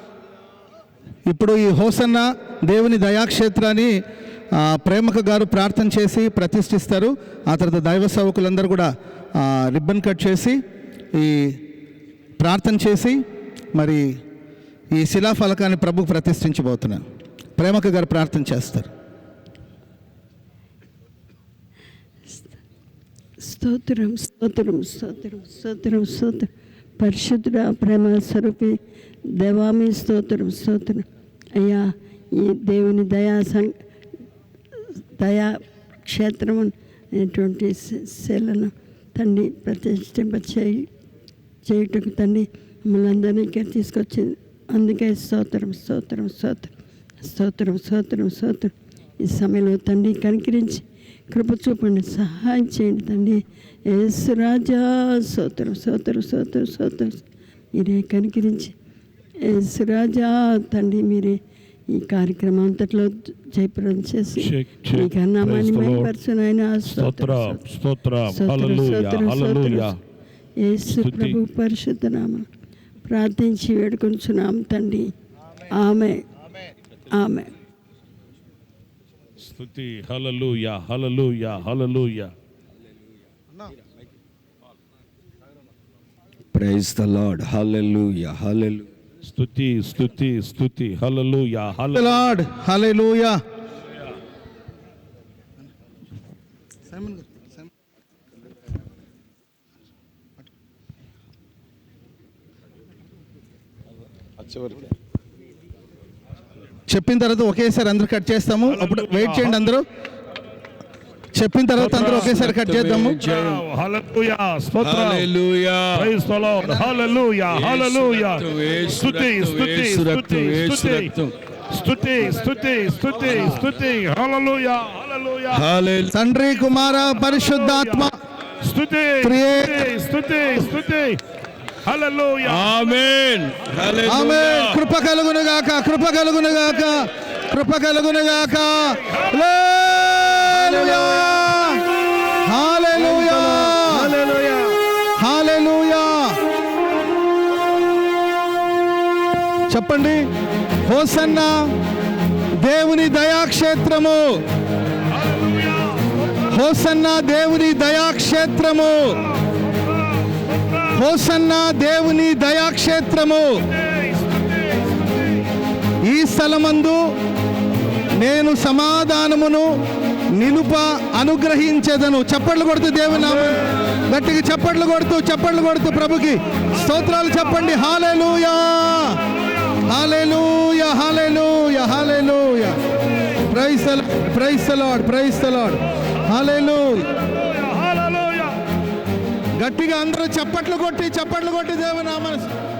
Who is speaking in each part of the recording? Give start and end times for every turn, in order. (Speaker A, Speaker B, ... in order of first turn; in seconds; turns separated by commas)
Speaker A: 1.2-3.9, Speaker A: 4.5-10.6, Speaker A: 11.1-11.6, Speaker A: 12.4-13.2, Speaker A: 13.7-14.2, Speaker A: 14.9-17.0, Speaker A: 17.6-18.9, Speaker B: 23.4-28.8, Speaker B: 29.3-33.7, Speaker B: 34.9-40.9, Speaker B: 41.6-58.7, Speaker B: 59.4-67.6, Speaker C: 64.4-66.1, Speaker C: 66.8-70.0, Speaker B: 68.2-69.9, Speaker B: 70.6-72.5, Speaker C: 70.9-71.4, Speaker B: 73.0-75.1, Speaker B: 75.7-76.2, Speaker B: 77.1-77.5, Speaker C: 79.4-82.3, Speaker D: 86.5-88.9, Speaker C: 89.2-92.2, Speaker A: 91.9-93.4, Speaker A: 97.0-97.2, Speaker A: 106.9-109.8, Speaker C: 108.7-109.6, Speaker A: 111.3-113.2, Speaker C: 111.8-112.4, Speaker D: 111.8-113.6, Speaker C: 113.2-115.3, Speaker D: 114.8-116.1, Speaker C: 115.9-121.1, Speaker D: 117.5-121.3, Speaker C: 121.7-125.6, Speaker D: 123.2-123.6, Speaker D: 125.5-126.1, Speaker A: 126.1-128.1, Speaker C: 126.9-131.2, Speaker A: 129.2-129.9, Speaker C: 131.8-132.9, Speaker D: 132.4-134.8, Speaker A: 134.1-141.8, Speaker D: 140.4-141.6, Speaker A: 142.4-144.2, Speaker D: 142.9-144.7, Speaker A: 145.2-146.4, Speaker A: 149.7-150.2, Speaker A: 150.8-151.7, Speaker A: 152.6-154.4, Speaker C: 155.1-156.5, Speaker A: 156.5-159.2, Speaker C: 159.3-161.0, Speaker A: 160.9-163.6, Speaker C: 163.7-165.2, Speaker A: 166.0-167.0, Speaker A: 168.1-169.7, Speaker A: 170.3-179.2, Speaker C: 176.6-177.6, Speaker C: 179.4-179.8, Speaker A: 179.8-182.8, Speaker A: 183.4-187.1, Speaker C: 187.1-188.6, Speaker A: 189.6-192.5